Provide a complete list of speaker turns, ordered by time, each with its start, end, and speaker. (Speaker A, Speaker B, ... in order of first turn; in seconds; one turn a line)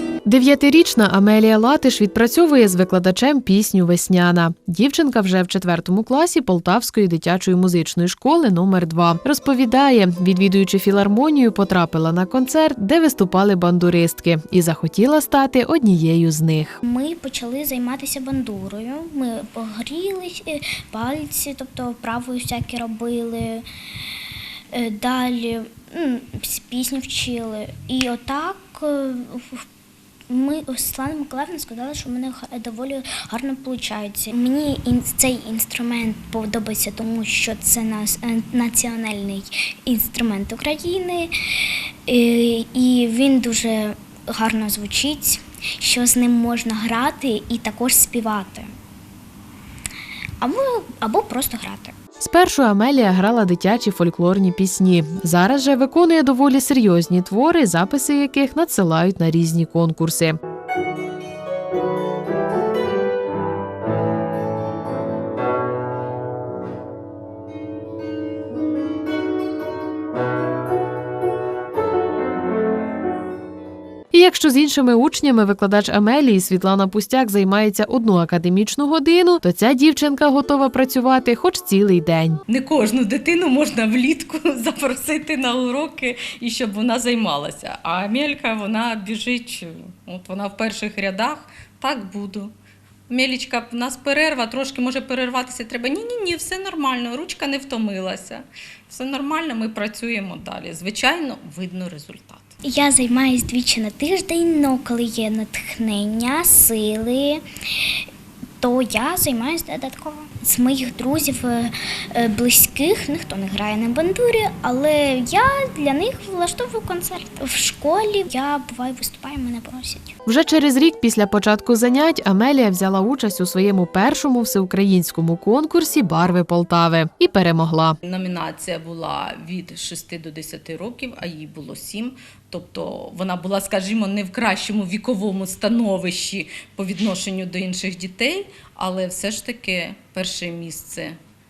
Speaker A: 0.2-16.8
Speaker B: 16.8-23.6
Speaker B: 24.7-29.6
Speaker B: 30.3-48.7
Speaker B: 50.4-51.9
Speaker A: 52.2-60.4
Speaker A: 74.1-82.4
Speaker C: 82.5-92.5
Speaker C: 93.1-102.6
Speaker B: 102.6-107.4
Speaker B: 108.6-120.1
Speaker A: 120.2-128.0
Speaker C: 128.0-141.2